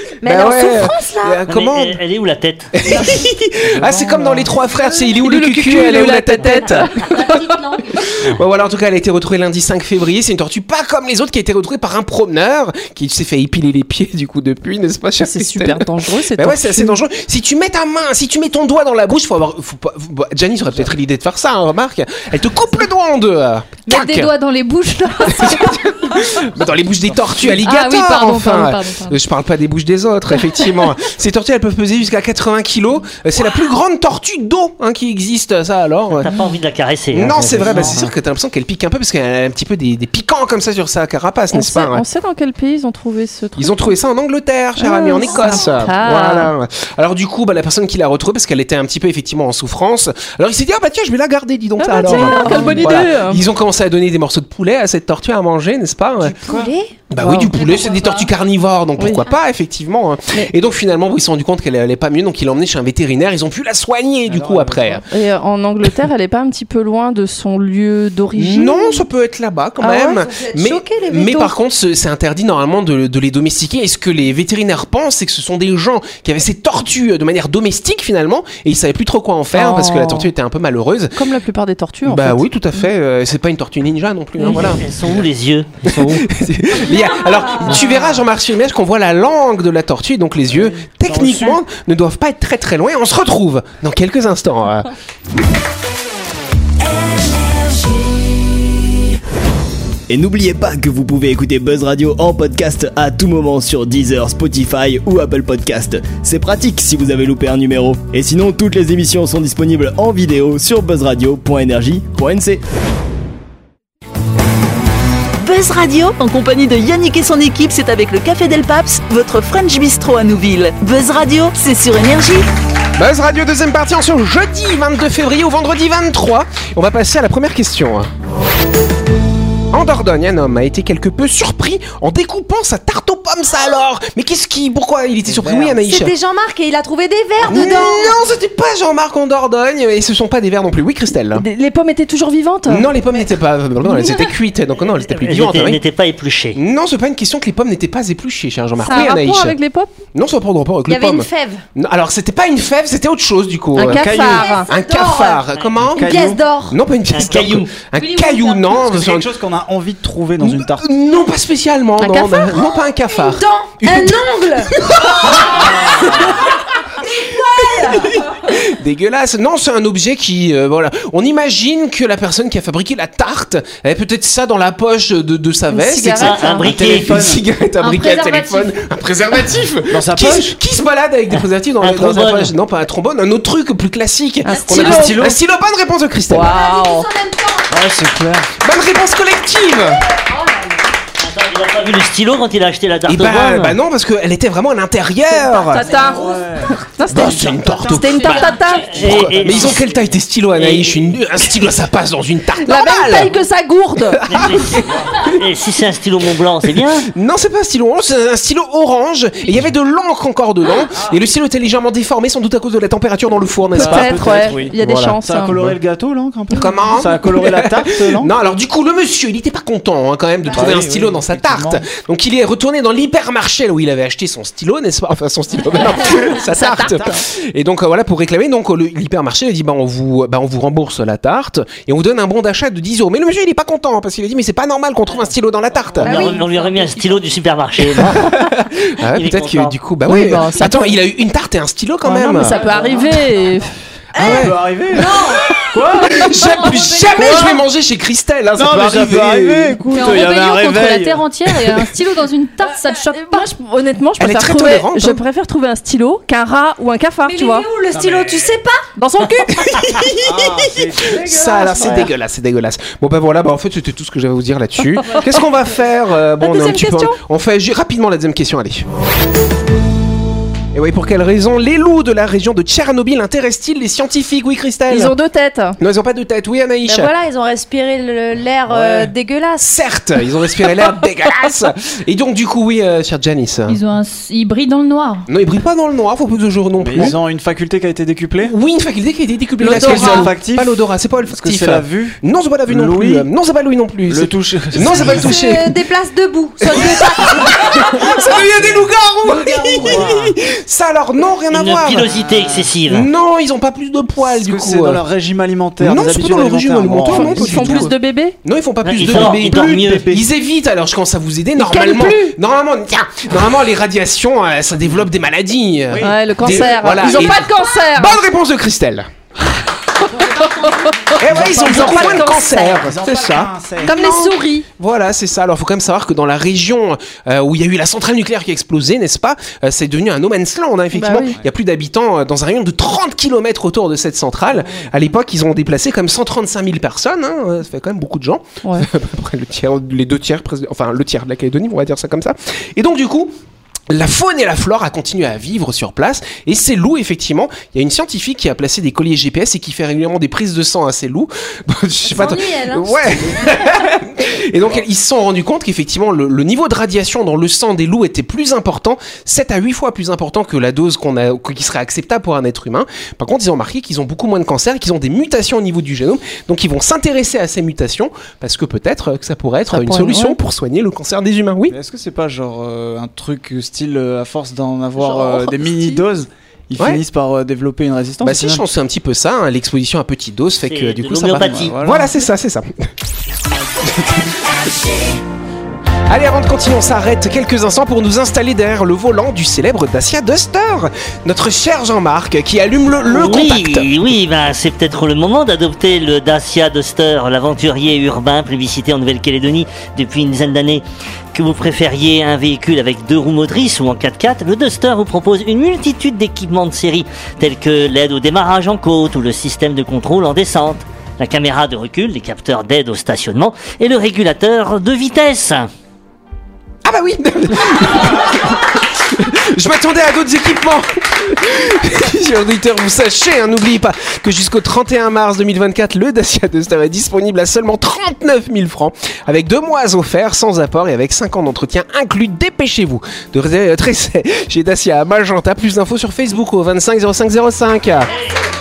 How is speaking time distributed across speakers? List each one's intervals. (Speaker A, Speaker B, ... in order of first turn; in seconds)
Speaker A: 0.2-1.4, 7.0-7.8, 56.5-57.0, 69.8-71.5, 135.7-138.2, 150.9-151.6, 154.2-155.4, 156.0-156.8, 162.1-166.1, 167.0-168.2, 184.5-185.1, 186.4-187.8, 190.3-190.7, 195.5-196.1, 236.0-237.1, 244.2-245.6, 246.5-247.5, 257.2-258.9, 261.1-262.1, 276.9-279.8, 289.7-290.3, 294.9-298.4, 299.4-300.0, 320.3-320.6, 321.6-322.8, 323.9-324.6, 352.0-353.0
Speaker B: 0.2-2.0, 2.8-24.3, 25.3-36.3, 37.1-42.0, 43.6-56.4, 57.1-65.0, 68.3-81.2, 82.0-85.2, 85.9-94.9, 123.0-128.1, 129.7-136.1, 137.4-141.4, 142.7-145.8, 146.5-149.6, 150.1-159.3, 160.4-165.6, 167.8-186.5, 188.6-190.0, 193.1-196.1, 197.1-203.3, 204.1-205.4, 206.8-214.7, 216.5-236.3, 237.9-243.1, 244.1-245.0, 246.0-249.8, 254.2-255.2, 259.5-268.9, 270.7-275.1, 275.8-277.1, 279.6-283.8, 285.3-287.2, 288.4-295.8, 296.6-302.1, 302.9-305.0, 305.8-319.1, 321.2-343.4, 343.9-371.8, 378.2-382.9, 383.8-384.4, 386.1-393.9, 416.8-438.1
Speaker C: 1.5-3.0, 36.2-38.1, 84.4-86.3, 145.1-146.6, 157.1-157.8, 176.2-177.2, 181.3-182.5, 191.2-193.8, 198.6-201.2, 204.3-207.1, 236.0-238.4, 239.1-239.8, 301.5-303.1, 308.8-310.1, 380.6-381.8, 393.0-415.7
Speaker D: 3.8-4.7, 37.6-38.1, 52.4-53.0, 56.2-56.7, 64.2-65.0, 90.5-91.6, 135.2-135.8, 153.8-154.5, 155.8-156.4, 158.7-160.9, 176.6-177.4, 179.9-180.6, 184.7-185.4, 187.7-188.5, 196.1-197.8, 199.2-199.8, 213.7-218.3, 220.4-221.9, 226.6-227.1, 244.2-245.2, 245.7-246.3, 247.1-247.6, 248.5-251.8, 257.9-258.5, 260.1-261.3, 278.7-279.1, 286.8-288.5, 289.6-293.3, 294.1-295.4, 298.2-300.4, 302.2-302.6, 304.2-307.9, 309.0-310.3, 315.9-317.3, 321.2-324.0, 334.6-334.9, 371.7-378.6, 381.4-382.2
Speaker E: 4.9-7.3, 15.2-17.0, 41.5-44.0, 44.8-46.5, 51.8-53.4, 57.2-57.5, 59.0-59.3, 65.1-69.0, 79.5-80.3, 81.1-82.4, 141.3-142.9, 148.8-149.9, 153.8-154.7, 175.7-176.7, 184.4-185.3, 186.3-187.1, 195.4-199.0, 202.6-204.2, 213.7-215.7, 226.6-226.9, 240.1-241.0, 242.0-243.7, 252.8-257.7, 259.0-259.7, 261.8-262.1, 266.4-267.2, 274.9-275.8, 307.1-308.4, 311.6-312.4, 316.0-318.2, 320.4-322.5, 330.9-331.4, 369.7-370.4, 375.0-376.0
Speaker F: 23.9-25.9, 27.5-29.2, 57.5-58.3, 158.0-158.7, 177.8-178.7, 198.2-198.8, 249.9-253.5, 283.7-285.3
Speaker G: 100.1-112.6
Speaker H: 115.4-122.5